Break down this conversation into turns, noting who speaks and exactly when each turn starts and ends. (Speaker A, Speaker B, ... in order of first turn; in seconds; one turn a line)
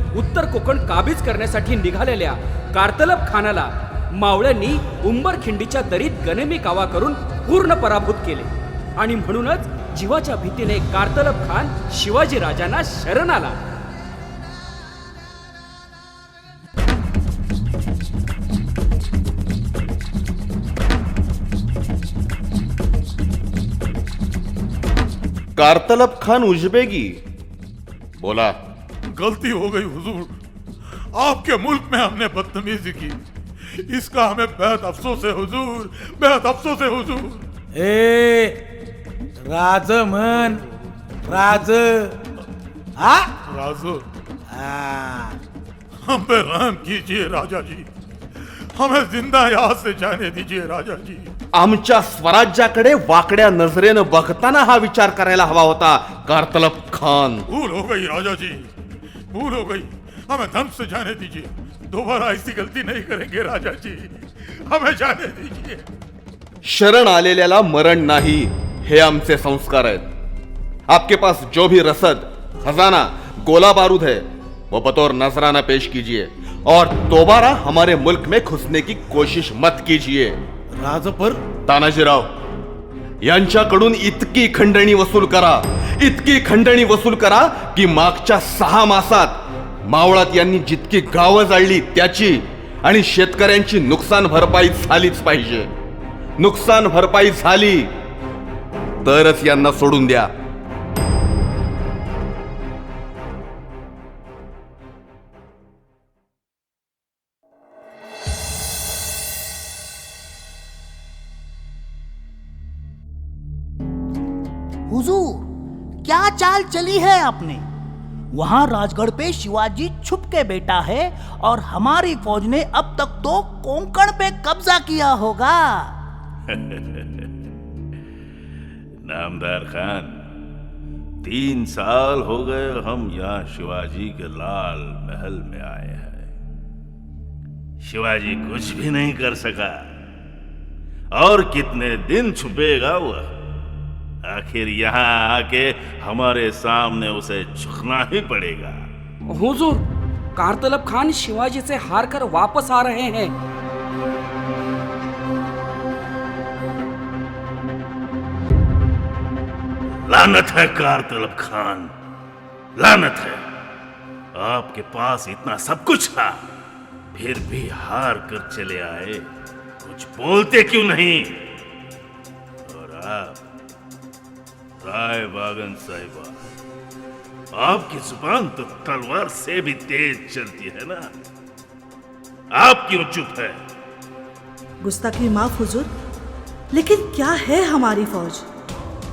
Speaker A: 0.1-13.6
Speaker B: 25.6-27.2
Speaker B: 28.1-28.6
Speaker C: 29.1-30.3
Speaker C: 31.1-37.4
Speaker D: 37.7-38.6
Speaker D: 39.4-40.6
Speaker D: 41.3-42.2
Speaker D: 43.0-43.3
Speaker C: 43.5-44.0
Speaker D: 44.5-45.4
Speaker C: 46.0-47.9
Speaker C: 48.4-51.3
Speaker B: 51.5-57.5
Speaker C: 57.5-58.7
Speaker C: 59.3-65.8
Speaker B: 66.6-70.1
Speaker B: 70.9-80.4
Speaker D: 80.7-81.4
Speaker B: 81.7-82.3
Speaker B: 83.2-95.7
Speaker B: 96.4-97.9
Speaker B: 99.0-100.3
Speaker E: 114.9-115.5
Speaker E: 116.0-117.6
Speaker E: 118.3-125.9
Speaker F: 126.5-127.3
Speaker F: 129.0-130.2
Speaker F: 131.2-136.3
Speaker F: 137.8-139.9
Speaker F: 141.1-143.3
Speaker F: 144.2-148.8
Speaker A: 149.3-149.8
Speaker A: 150.3-153.3
Speaker F: 160.1-161.9
Speaker F: 162.8-163.4
Speaker F: 164.3-166.4
Speaker F: 167.1-169.3
Speaker F: 169.8-171.5
Speaker F: 172.7-173.4
Speaker F: 174.8-176.3
Speaker F: 177.5-181.2
Speaker F: 182.5-183.6
Speaker G: 184.8-185.9
Speaker G: 186.7-188.5